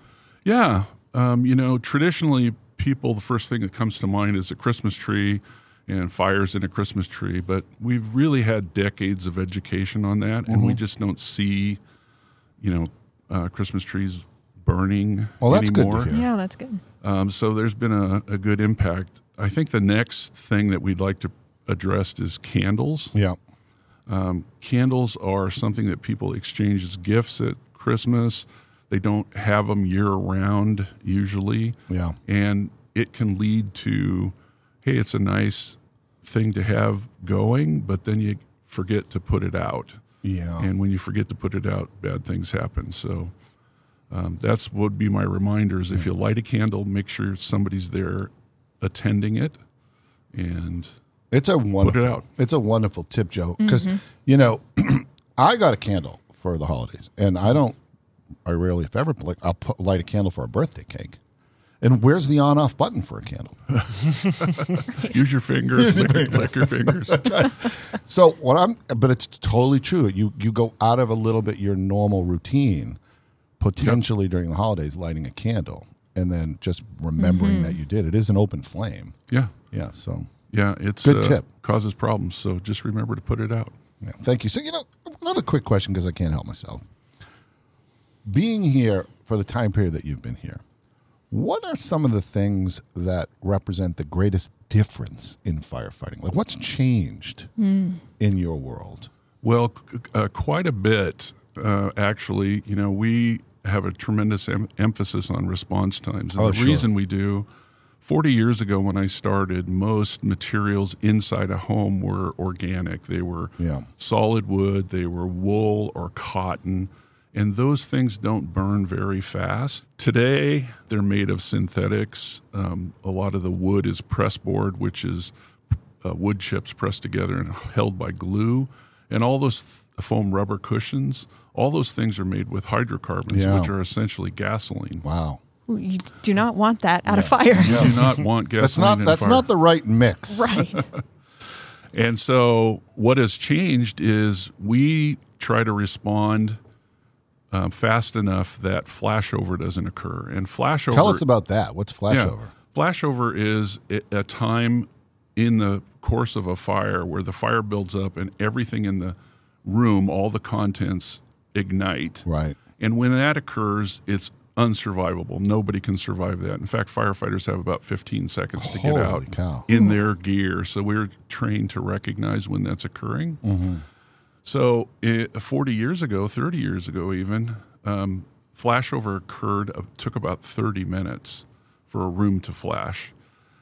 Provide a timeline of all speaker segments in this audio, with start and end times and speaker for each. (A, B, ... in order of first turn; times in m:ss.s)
0:00.4-0:11.8 A
0:10.5-0:10.8 B
0:12.6-0:16.1 A
0:15.4-0:16.3 B
0:16.1-0:16.8 C
0:17.0-0:23.2 A
0:24.1-0:40.0 A
0:31.9-0:32.2 B
0:40.2-0:40.7 B
0:40.6-0:43.3 A
0:44.1-0:48.3 A
0:48.8-0:49.6 A
0:50.3-0:50.9 A
0:51.3-0:57.8 B
0:51.8-0:52.2 A
0:53.6-0:53.9 C
0:58.4-1:01.2 B
1:01.8-1:03.8 B
1:04.3-1:07.4 A
1:05.0-1:05.2 C
1:05.7-1:13.0 B
1:13.6-1:19.2 B
1:17.2-1:17.8 C
1:19.7-1:20.3 B
1:20.5-1:23.7 A
1:21.0-1:21.4 B
1:24.0-1:26.8 B
1:28.3-1:30.6 B
1:31.3-1:37.5 B
1:37.6-1:38.0 C
1:38.2-1:39.1 B
1:39.4-1:47.5 A
1:46.4-1:46.9 B
1:48.0-2:05.3 A
1:53.6-1:53.9 B
2:06.0-2:15.0 A
2:13.3-2:13.7 B
2:15.0-2:15.4 B
2:15.7-2:18.1 C
2:17.1-2:18.0 B
2:17.6-2:19.5 A
2:18.6-2:20.5 B
2:20.3-2:20.9 C
2:21.9-2:26.6 A
2:27.5-2:31.2 A
2:30.9-2:32.5 B
2:32.1-2:42.3 A
2:42.3-2:42.6 B
2:42.8-2:53.4 A
2:48.6-2:49.7 B
2:49.7-2:50.0 C
2:53.4-2:53.8 B
2:54.4-3:03.1 A